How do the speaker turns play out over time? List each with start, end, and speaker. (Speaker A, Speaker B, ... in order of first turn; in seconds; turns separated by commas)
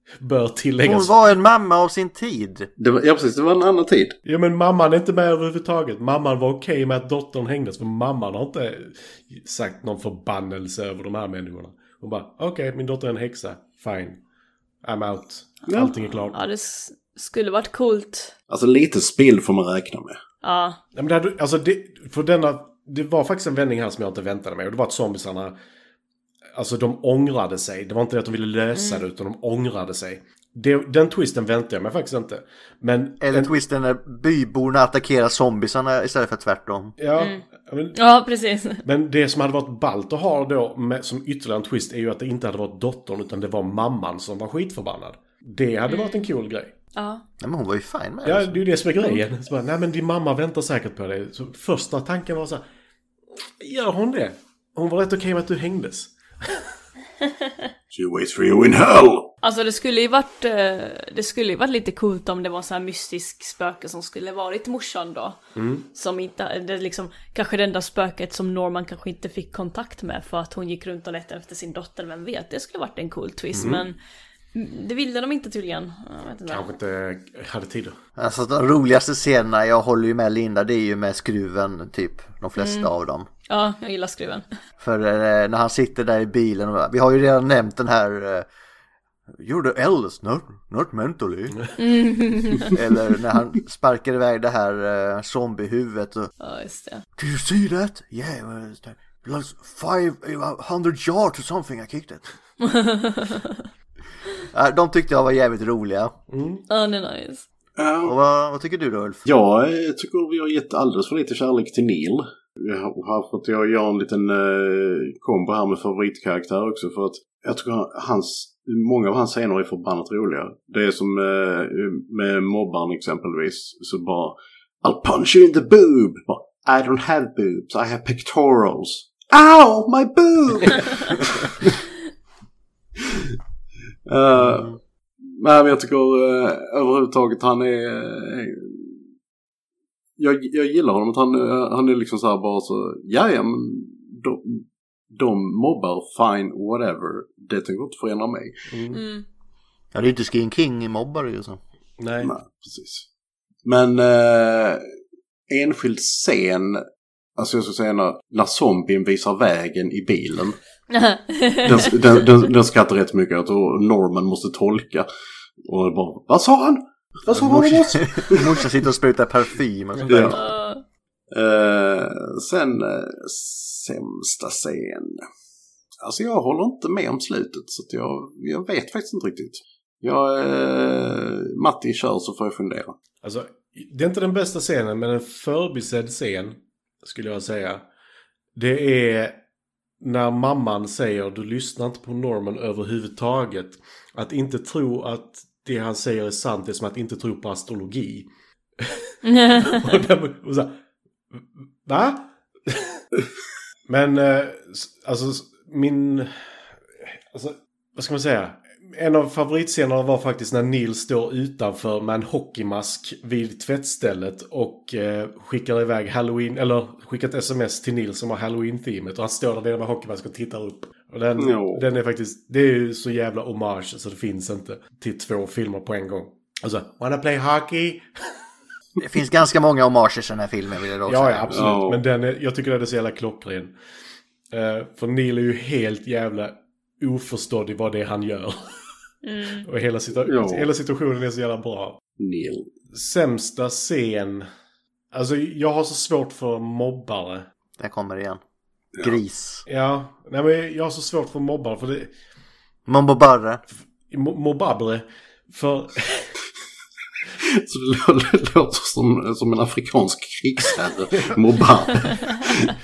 Speaker A: 0.2-1.1, Speaker B: 0.8-2.7, Speaker C: 2.8-4.2, Speaker A: 4.2-14.2, Speaker A: 14.8-16.4, Speaker C: 15.7-15.9, Speaker D: 16.3-18.3, Speaker C: 18.5-20.2, Speaker D: 20.4-20.8, Speaker A: 20.9-25.6, Speaker A: 26.5-33.5, Speaker D: 28.7-29.0, Speaker B: 33.2-36.9, Speaker A: 37.0-38.0, Speaker D: 37.2-37.4, Speaker D: 37.9-38.8, Speaker A: 38.8-46.7, Speaker D: 45.9-46.3, Speaker D: 46.9-47.2, Speaker B: 47.4-48.6, Speaker A: 48.2-52.6, Speaker A: 53.6-56.7, Speaker C: 57.9-59.3, Speaker D: 59.4-65.4, Speaker A: 65.5-65.9, Speaker D: 65.9-74.0, Speaker D: 74.5-76.7, Speaker A: 76.5-78.0, Speaker B: 78.2-83.3, Speaker D: 82.6-82.9, Speaker D: 83.5-84.4, Speaker B: 84.8-88.5, Speaker B: 89.4-91.7, Speaker D: 91.8-92.7, Speaker B: 92.6-96.3, Speaker D: 96.4-97.0, Speaker B: 97.2-102.2, Speaker D: 102.6-103.7, Speaker B: 104.5-106.2, Speaker A: 106.3-106.6, Speaker D: 106.7-107.5, Speaker C: 107.8-108.2, Speaker B: 108.0-109.2, Speaker C: 109.2-131.8, Speaker C: 133.0-133.3, Speaker C: 134.1-139.0, Speaker C: 140.2-148.6, Speaker A: 148.7-149.0, Speaker D: 148.9-149.2, Speaker B: 149.9-151.6, Speaker A: 152.0-152.3, Speaker C: 152.2-153.1, Speaker C: 153.6-154.8, Speaker C: 155.5-156.8, Speaker C: 157.3-160.6, Speaker D: 160.9-162.1, Speaker C: 161.6-165.1, Speaker C: 165.6-168.6, Speaker B: 167.3-170.5, Speaker C: 170.1-170.4, Speaker D: 170.3-170.8, Speaker C: 171.3-175.2, Speaker C: 176.0-182.9, Speaker A: 183.2-187.8, Speaker A: 188.6-189.4, Speaker A: 190.0-198.3, Speaker A: 198.8-200.8, Speaker D: 199.2-199.9, Speaker A: 201.3-203.0, Speaker A: 203.9-206.5, Speaker A: 207.0-228.1, Speaker C: 221.4-221.8, Speaker B: 229.0-231.7, Speaker A: 231.1-233.7, Speaker C: 231.5-232.0, Speaker A: 234.5-238.7, Speaker D: 239.2-239.7, Speaker A: 239.6-242.0, Speaker C: 240.2-240.7, Speaker C: 242.2-242.7, Speaker A: 242.9-244.5, Speaker A: 245.1-247.5, Speaker B: 247.8-248.4, Speaker C: 248.9-249.2, Speaker B: 249.0-249.6, Speaker A: 249.7-252.1, Speaker B: 252.9-253.6, Speaker A: 254.1-256.3, Speaker C: 257.4-262.7